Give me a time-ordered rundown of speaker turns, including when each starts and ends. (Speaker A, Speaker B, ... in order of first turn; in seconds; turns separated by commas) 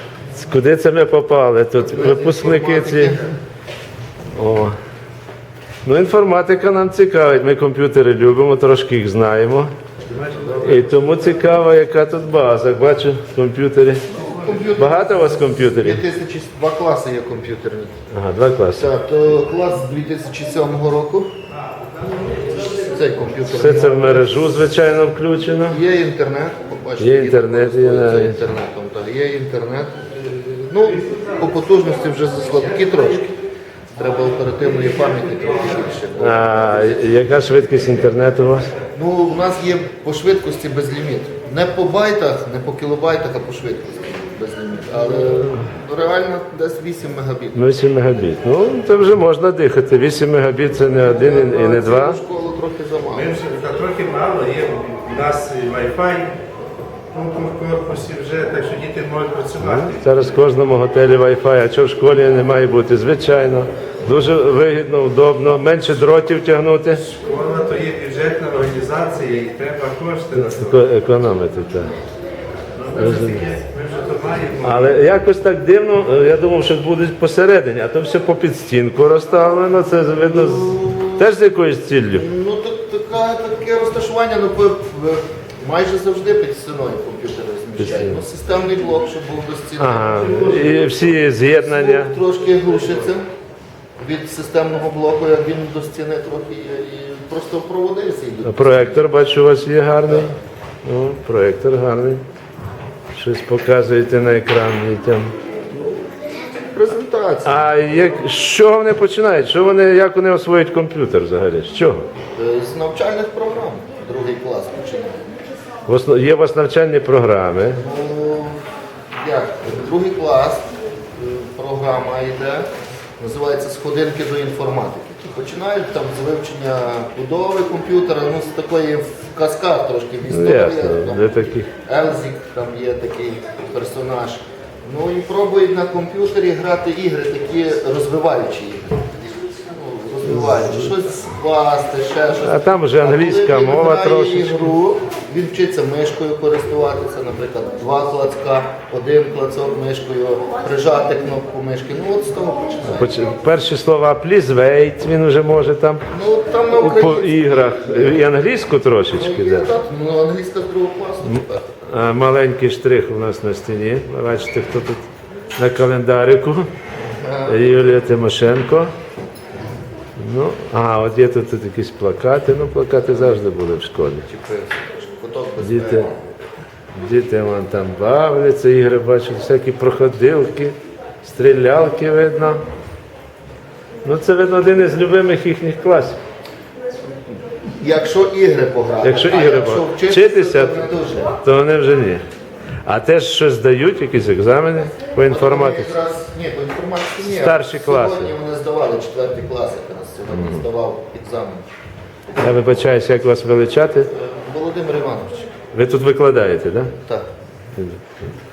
Speaker A: 0.3-3.2, Speaker B: 1.8-3.3, Speaker A: 4.3-4.7, Speaker A: 5.8-9.7, Speaker C: 10.1-11.0, Speaker A: 10.5-14.1, Speaker B: 14.1-18.0, Speaker A: 14.8-16.0, Speaker A: 18.1-18.9, Speaker B: 18.8-21.3, Speaker B: 22.6-24.2, Speaker A: 23.5-25.8, Speaker B: 25.7-33.3, Speaker A: 27.0-28.4, Speaker B: 33.9-37.3, Speaker A: 36.2-38.7, Speaker B: 38.9-47.6, Speaker A: 45.4-45.6, Speaker A: 47.5-52.2, Speaker B: 50.9-53.4, Speaker C: 53.1-56.4, Speaker C: 57.1-60.0, Speaker A: 59.6-67.0, Speaker C: 67.0-70.8, Speaker A: 70.3-71.9, Speaker C: 72.8-75.0, Speaker A: 73.0-73.4, Speaker A: 74.6-82.2, Speaker B: 80.3-81.3, Speaker B: 82.1-93.3, Speaker A: 87.8-88.2, Speaker A: 89.8-92.2, Speaker B: 94.0-99.1, Speaker A: 98.4-100.3, Speaker B: 100.0-100.3, Speaker A: 100.8-102.2, Speaker A: 103.1-105.3, Speaker B: 105.7-107.7, Speaker A: 107.4-112.0, Speaker B: 112.3-115.4, Speaker A: 115.9-117.8, Speaker B: 117.7-118.6, Speaker B: 119.2-153.3, Speaker A: 130.3-131.7, Speaker A: 142.4-144.8, Speaker A: 152.9-156.1, Speaker B: 156.1-158.2, Speaker A: 156.7-159.7, Speaker B: 159.1-161.8, Speaker A: 161.3-165.0, Speaker A: 165.6-166.7, Speaker B: 167.2-167.8, Speaker A: 167.5-168.9, Speaker A: 170.2-174.2, Speaker B: 173.1-173.5, Speaker B: 174.2-176.3, Speaker A: 175.6-176.1, Speaker A: 176.9-182.6, Speaker A: 184.0-186.2, Speaker B: 187.8-191.3, Speaker A: 189.0-192.2, Speaker A: 192.8-195.9, Speaker B: 195.2-201.6, Speaker A: 197.2-198.3, Speaker A: 202.4-204.1, Speaker B: 204.1-205.5, Speaker A: 205.7-206.9, Speaker B: 206.9-207.2, Speaker A: 207.7-208.2